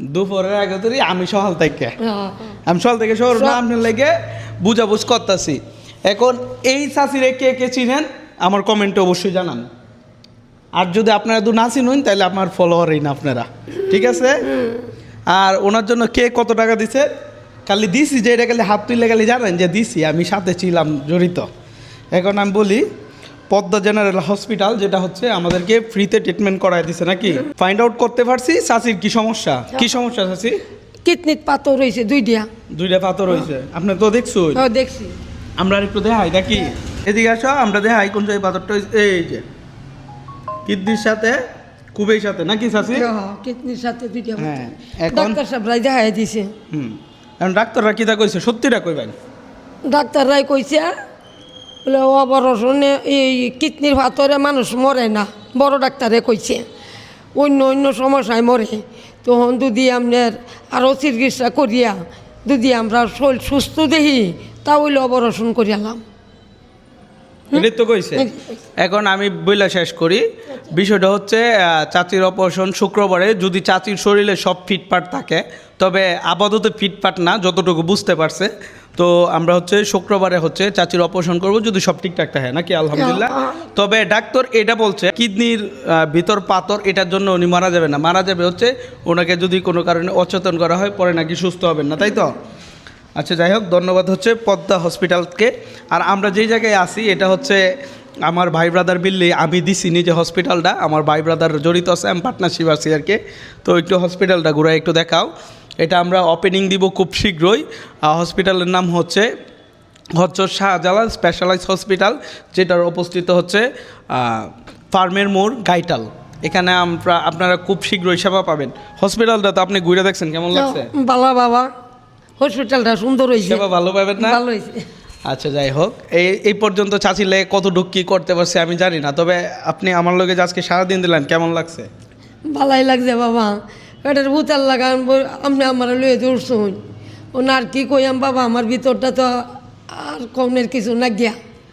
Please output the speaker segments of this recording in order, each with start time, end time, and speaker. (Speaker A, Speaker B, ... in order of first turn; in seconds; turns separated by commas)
Speaker A: 0.1-1.9, Speaker B: 2.0-2.6, Speaker A: 2.7-9.7, Speaker B: 3.3-3.6, Speaker A: 10.8-14.6, Speaker A: 15.3-17.1, Speaker A: 17.6-21.5, Speaker A: 22.1-22.9, Speaker A: 23.5-30.6, Speaker B: 31.0-32.5, Speaker A: 32.7-34.6, Speaker B: 34.5-35.2, Speaker A: 35.6-39.4, Speaker A: 40.6-41.4, Speaker A: 41.9-43.1, Speaker B: 42.9-44.6, Speaker A: 44.4-45.4, Speaker B: 45.1-46.5, Speaker A: 46.7-49.1, Speaker B: 49.9-50.9, Speaker B: 51.8-56.6, Speaker B: 57.4-66.0, Speaker B: 67.5-68.6, Speaker A: 67.5-68.2, Speaker A: 68.8-92.3, Speaker B: 83.0-83.6, Speaker A: 93.2-97.6, Speaker A: 98.3-105.3, Speaker A: 105.8-109.3, Speaker A: 110.2-120.9, Speaker B: 120.5-121.7, Speaker B: 122.4-123.6, Speaker A: 123.4-124.4, Speaker B: 124.2-124.8, Speaker A: 125.3-131.9, Speaker B: 132.5-136.8, Speaker B: 137.3-139.4, Speaker B: 139.9-141.4